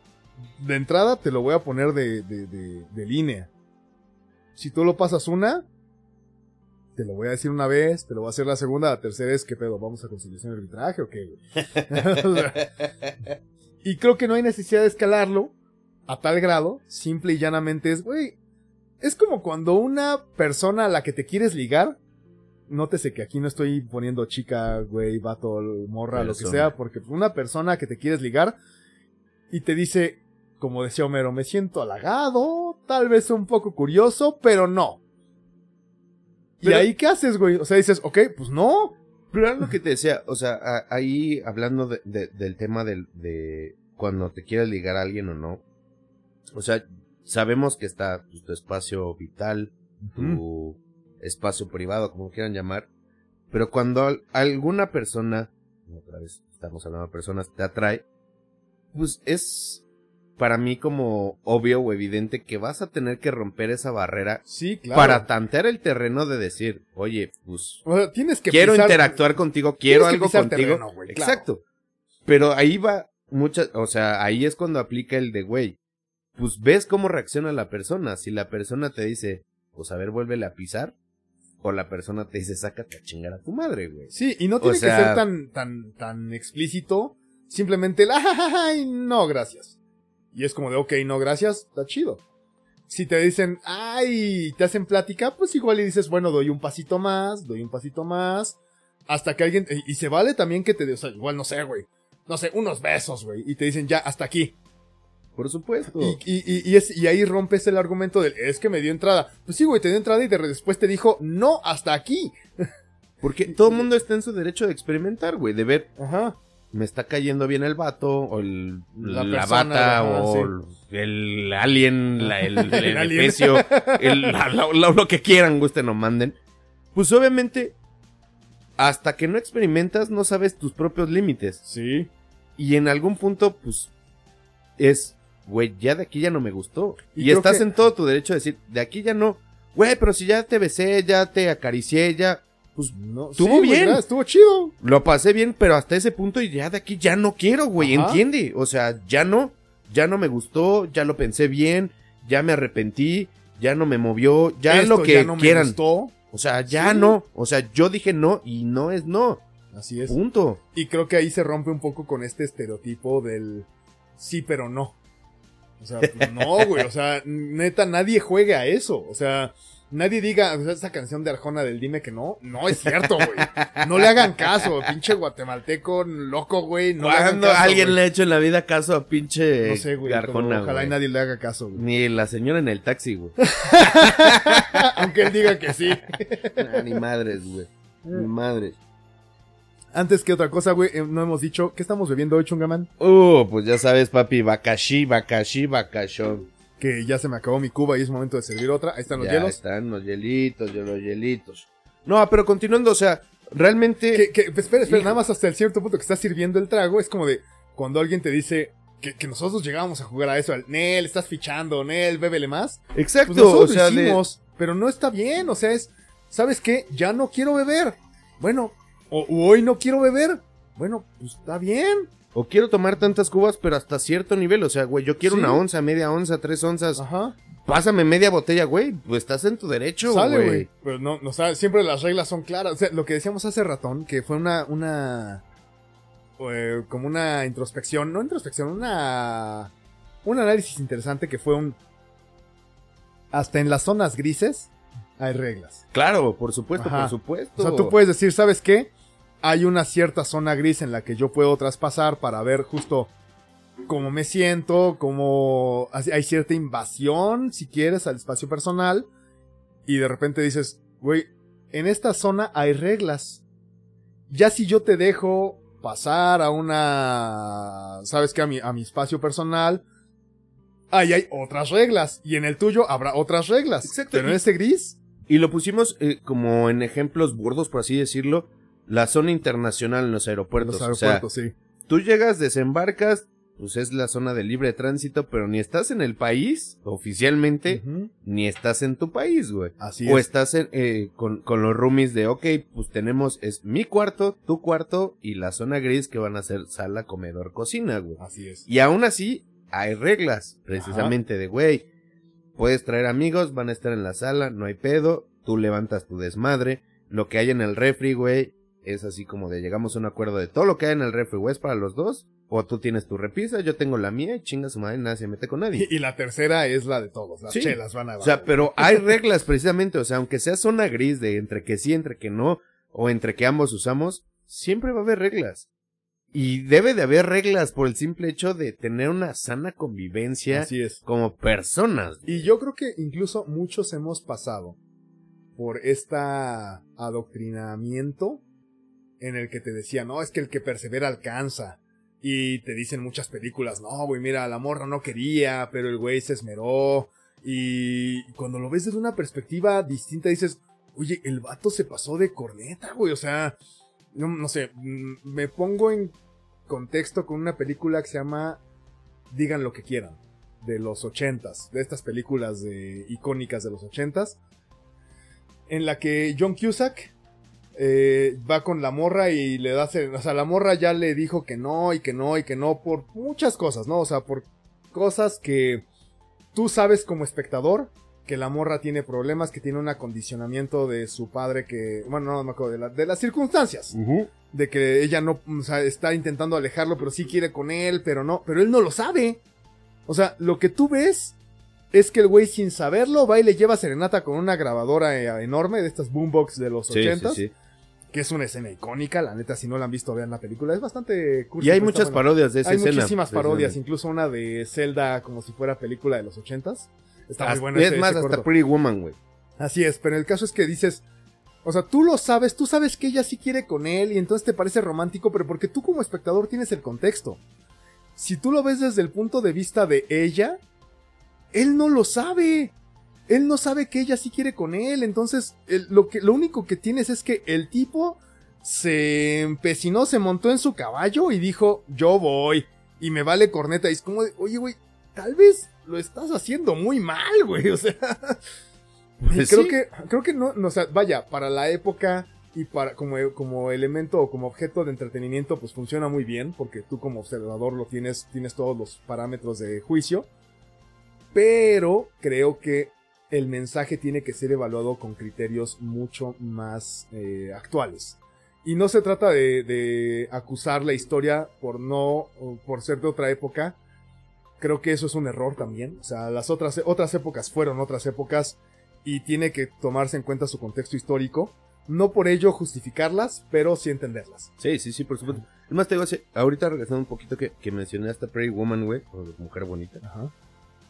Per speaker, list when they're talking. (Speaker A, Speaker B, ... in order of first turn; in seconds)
Speaker A: 0.6-3.5, 4.5-5.7, 7.0-12.7, 13.8-15.5, 16.1-18.4, 19.0-22.0, 22.7-28.6, 29.5-35.0, 36.6-39.0, 50.0-50.4, 64.5-65.2, 67.8-69.2, 69.8-71.5, 84.1-89.8, 90.3-92.2, 92.9-98.6, 99.1-104.5, 105.8-112.7, 113.5-113.8, 116.0-116.4, 119.0-120.5, 122.2-124.3, 131.6-132.1, 137.1-137.7, 142.9-144.7, 147.8-148.2, 154.7-156.1, 156.7-157.2, 159.7-160.2, 160.7-165.0, 165.8-178.0, 179.6-181.8, 183.4-186.9, 189.9-192.9, 196.8-199.6, 204.1-222.1, 225.2-225.6, 226.9-227.3, 230.1-235.4, 236.4-239.7, 240.2-241.8, 243.3-245.8, 246.8-248.9, 249.4-253.1, 253.9-259.1, 259.9-263.4, 264.3-269.8, 270.9-275.0, 280.6-281.5, 287.7-288.1, 289.8-290.2, 298.2-298.6, 300.8-301.1, 315.7-319.1, 330.5-331.0, 332.2-334.8, 335.6-338.4, 339.2-353.6, 354.1-356.1, 356.7-358.6, 359.3-364.4, 365.7-367.1, 367.8-375.8, 376.5-383.9, 384.5-389.4, 390.1-391.4, 391.9-397.4, 398.1-408.5, 409.6-411.0, 411.6-417.4, 418.2-420.6, 421.5-422.7, 423.3-438.4, 439.3-450.3, 451.3-463.8, 464.6-474.5, 480.0-480.3
Speaker B: 11.9-13.1, 26.1-26.7, 36.6-36.9, 39.3-45.6, 46.5-52.9, 53.5-58.0, 58.9-59.8, 60.4-64.4, 64.9-67.8, 68.5-71.6, 72.2-75.8, 76.3-80.9, 81.6-85.2, 105.3-106.2, 113.2-115.9, 116.7-126.3, 126.9-127.8, 128.8-131.6, 132.6-133.9, 134.8-144.0, 144.8-155.8, 156.3-159.4, 160.1-160.6, 166.0-166.8, 172.7-174.9, 177.0-180.9, 181.7-185.1, 186.6-188.8, 193.0-196.4, 199.1-204.3, 204.8-205.1, 212.9-214.2, 222.3-227.0, 227.7-230.7, 245.9-247.9, 273.8-274.4, 275.3-281.2, 281.9-301.8, 302.6-315.9, 317.5-325.7, 326.3-332.4, 383.9-384.3, 396.9-397.5, 401.6-403.8, 407.4-409.2, 439.2-439.7, 474.6-480.0